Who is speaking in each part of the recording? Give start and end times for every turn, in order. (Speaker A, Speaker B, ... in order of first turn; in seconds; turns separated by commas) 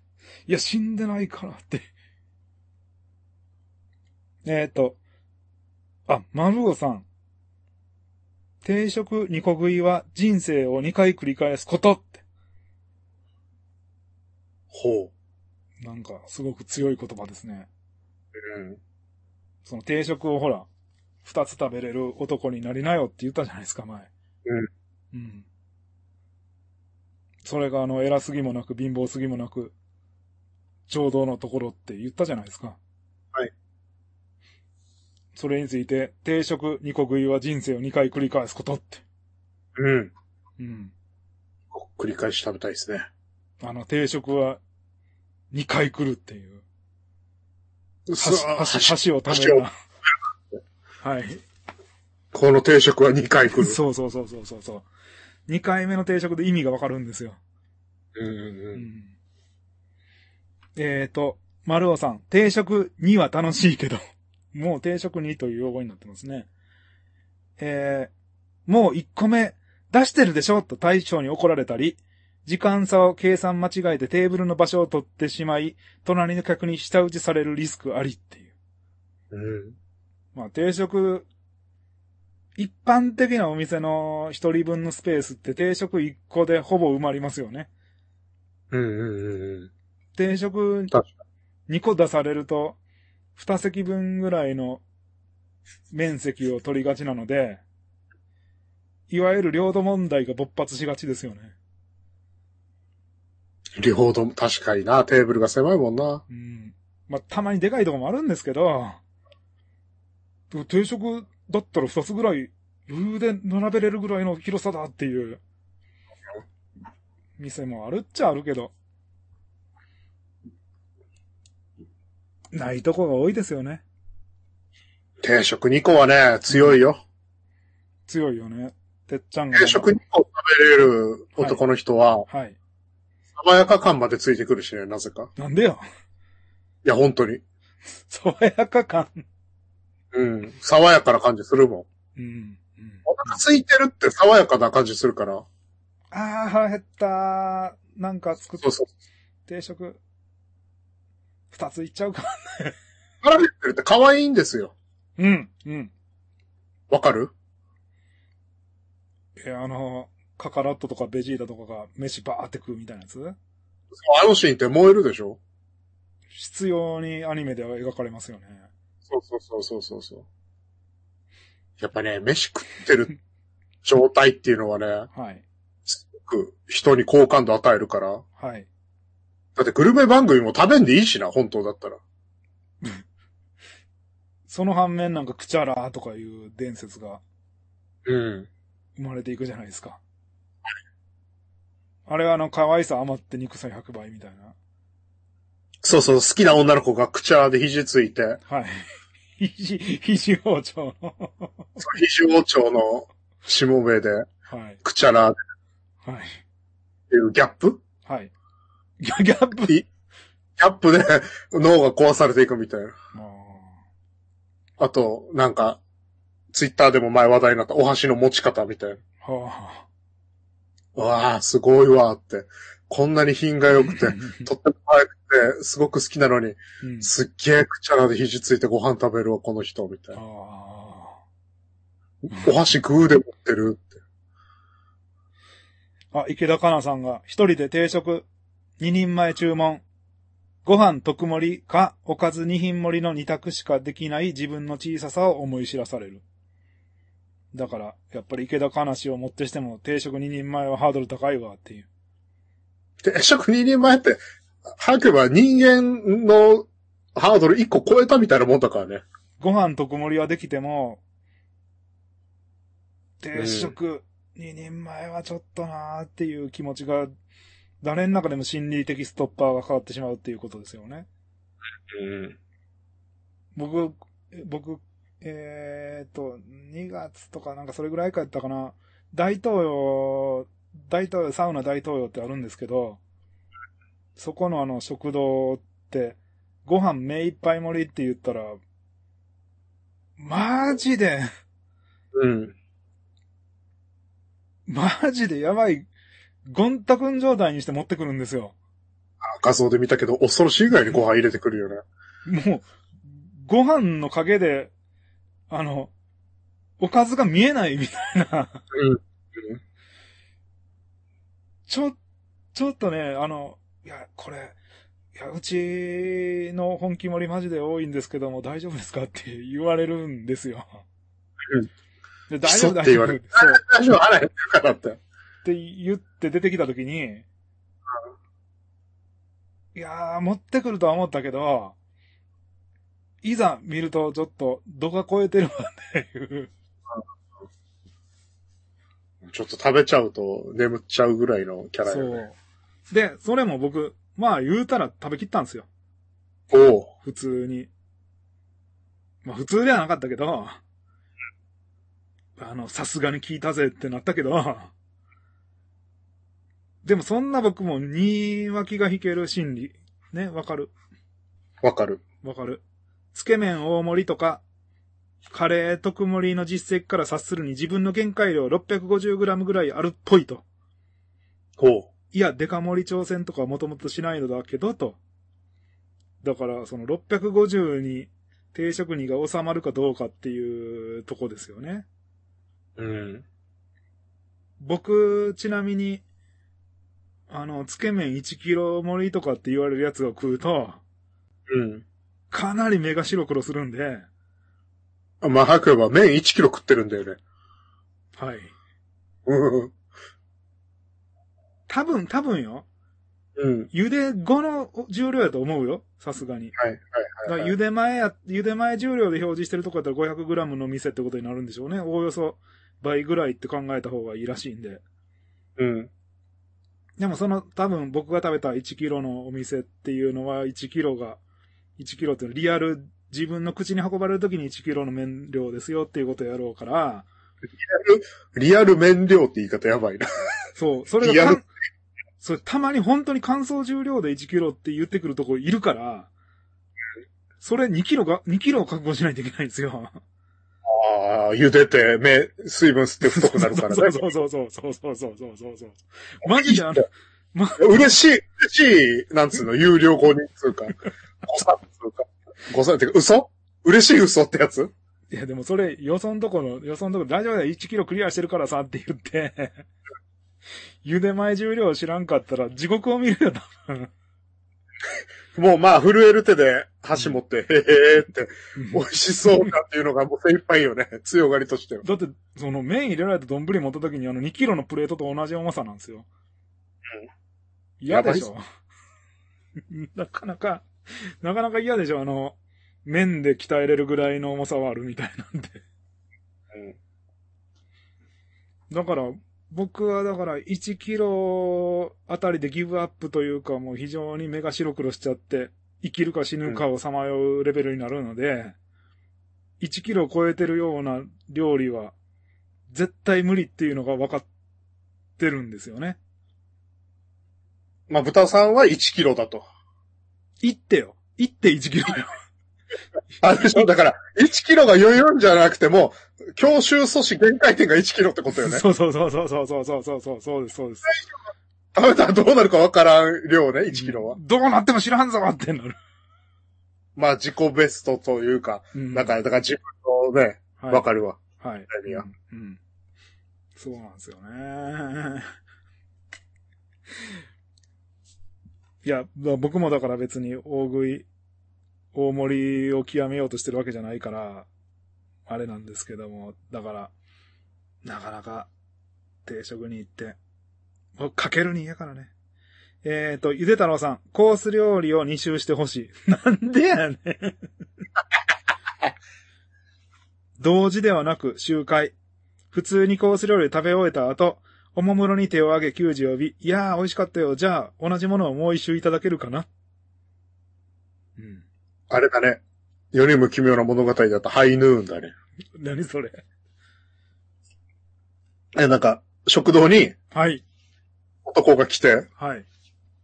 Speaker A: 0.5-1.9, Speaker A: 4.5-5.0, Speaker A: 6.1-7.0, Speaker A: 8.6-12.2, Speaker B: 14.7-15.1, Speaker A: 15.8-17.7, Speaker B: 18.4-18.8, Speaker A: 19.6-20.7, Speaker A: 21.2-24.1, Speaker A: 25.1-25.5, Speaker A: 27.4-29.7, Speaker A: 30.9-32.8, Speaker A: 35.4-39.0, Speaker B: 39.8-40.1, Speaker A: 40.6-40.9, Speaker B: 41.7-43.1, Speaker A: 43.6-44.6, Speaker A: 45.5-46.6, Speaker B: 48.1-49.7, Speaker A: 48.2-49.7, Speaker A: 51.0-51.4, Speaker B: 52.3-53.8, Speaker A: 53.5-54.9, Speaker A: 55.5-57.4, Speaker B: 58.2-58.8, Speaker A: 58.7-59.1, Speaker A: 60.8-64.0, Speaker A: 64.5-66.5, Speaker A: 67.6-68.1, Speaker A: 68.7-78.5, Speaker B: 79.3-79.8, Speaker A: 80.3-81.3, Speaker A: 82.6-87.7, Speaker B: 88.7-89.7, Speaker A: 90.2-91.0, Speaker A: 91.7-92.8, Speaker A: 93.4-94.8, Speaker A: 95.9-97.6, Speaker A: 99.1-101.5, Speaker B: 103.8-106.2, Speaker A: 106.3-109.0, Speaker A: 110.5-115.4, Speaker A: 117.4-118.7, Speaker A: 122.5-123.8, Speaker B: 125.2-127.0, Speaker A: 126.5-126.8, Speaker A: 128.1-129.9, Speaker B: 129.5-132.3, Speaker A: 132.3-132.6, Speaker B: 133.4-135.3, Speaker A: 135.4-135.8, Speaker B: 136.8-137.4, Speaker A: 138.1-139.2, Speaker B: 140.1-141.9, Speaker A: 142.2-143.4, Speaker B: 143.1-145.4, Speaker A: 146.1-148.8, Speaker B: 148.6-148.9, Speaker A: 149.5-150.0, Speaker A: 151.5-152.8, Speaker B: 153.2-154.7, Speaker A: 155.2-155.9, Speaker B: 156.9-157.3, Speaker A: 159.4-163.3, Speaker B: 163.9-165.4, Speaker A: 166.3-168.7, Speaker B: 169.1-170.2, Speaker B: 171.8-173.1, Speaker B: 173.8-175.1, Speaker A: 175.1-175.4, Speaker B: 175.9-178.2, Speaker A: 178.4-178.7, Speaker B: 179.6-182.0, Speaker A: 184.5-187.2, Speaker B: 188.1-188.5, Speaker A: 189.0-190.0, Speaker A: 192.1-194.5, Speaker B: 195.8-198.4, Speaker A: 198.5-198.9, Speaker A: 199.4-201.8, Speaker B: 201.8-204.3, Speaker A: 204.5-204.8, Speaker B: 204.8-205.3, Speaker A: 206.0-206.4, Speaker B: 207.1-207.8, Speaker A: 208.1-208.3, Speaker A: 209.0-209.8, Speaker B: 210.6-212.9, Speaker A: 213.1-213.7, Speaker B: 214.8-215.8, Speaker B: 216.5-219.0, Speaker A: 219.2-219.9, Speaker B: 220.9-230.2, Speaker A: 223.8-224.5, Speaker A: 226.8-227.1, Speaker A: 230.1-231.2, Speaker B: 232.2-234.0, Speaker A: 236.1-238.3, Speaker A: 238.8-239.8, Speaker A: 240.7-246.2, Speaker A: 247.5-251.9, Speaker B: 253.0-259.1, Speaker A: 259.4-261.0, Speaker A: 263.2-267.1, Speaker B: 263.4-263.7, Speaker A: 267.8-271.1, Speaker B: 271.9-272.4, Speaker A: 273.6-283.0, Speaker A: 284.2-288.6, Speaker A: 290.2-291.3, Speaker B: 292.1-292.6, Speaker A: 294.7-295.9, Speaker A: 296.5-298.6, Speaker B: 299.2-301.8, Speaker A: 302.3-304.7, Speaker A: 305.5-305.9, Speaker A: 306.8-308.6, Speaker B: 308.7-309.6, Speaker A: 311.7-312.0, Speaker A: 312.5-314.6, Speaker A: 315.1-320.8, Speaker A: 322.3-323.6, Speaker B: 322.4-325.0, Speaker A: 325.4-327.3, Speaker A: 329.8-331.8, Speaker A: 333.2-336.5, Speaker B: 339.2-342.2, Speaker A: 341.9-342.4, Speaker A: 342.9-345.7, Speaker B: 346.5-346.9, Speaker A: 347.0-347.7, Speaker A: 349.2-350.6, Speaker A: 352.4-354.7, Speaker A: 356.9-360.7, Speaker B: 361.6-362.0, Speaker A: 362.2-362.6, Speaker A: 363.1-364.4, Speaker A: 365.3-370.4, Speaker B: 371.6-371.9, Speaker A: 372.1-375.0, Speaker A: 376.2-381.9, Speaker B: 382.8-383.2, Speaker A: 384.6-386.0, Speaker A: 387.3-390.8, Speaker B: 391.5-391.8, Speaker A: 392.3-394.1, Speaker B: 395.2-397.2, Speaker A: 398.2-398.5, Speaker B: 399.3-399.7, Speaker A: 401.7-402.6, Speaker B: 403.4-403.7, Speaker A: 403.7-406.6, Speaker B: 406.6-407.5, Speaker A: 407.2-414.8, Speaker B: 415.6-415.9, Speaker A: 417.0-421.2, Speaker A: 421.8-427.1, Speaker B: 427.6-430.1, Speaker A: 430.6-431.5, Speaker B: 431.0-431.4, Speaker A: 432.2-436.1, Speaker A: 437.4-440.0, Speaker B: 440.6-444.1, Speaker A: 443.0-447.9, Speaker B: 446.2-446.8, Speaker B: 447.6-454.7, Speaker A: 455.1-459.6, Speaker A: 460.8-463.9, Speaker B: 465.3-471.9, Speaker A: 468.6-468.9, Speaker A: 471.8-476.1, Speaker A: 477.8-478.4, Speaker B: 477.9-478.3, Speaker A: 479.7-485.6, Speaker A: 488.7-498.6, Speaker A: 499.6-501.9, Speaker A: 502.7-504.3, Speaker A: 505.2-506.0, Speaker B: 507.9-509.5, Speaker A: 510.4-512.2, Speaker B: 513.2-518.7, Speaker A: 518.3-521.0, Speaker B: 521.7-524.2, Speaker A: 523.7-525.8, Speaker B: 527.0-532.1, Speaker A: 528.7-529.1, Speaker A: 530.6-530.9, Speaker A: 531.4-532.6, Speaker A: 533.6-535.3, Speaker A: 538.8-541.1, Speaker A: 541.9-544.5, Speaker A: 545.3-546.9, Speaker A: 547.9-548.5, Speaker A: 549.2-550.2, Speaker A: 551.0-552.1, Speaker A: 552.8-557.4, Speaker A: 560.4-561.9, Speaker A: 562.5-569.5, Speaker A: 571.2-571.5, Speaker B: 571.9-572.4, Speaker B: 572.9-575.1, Speaker A: 575.6-576.2, Speaker B: 578.5-580.0, Speaker A: 580.1-580.4, Speaker B: 581.2-582.1, Speaker A: 582.2-582.5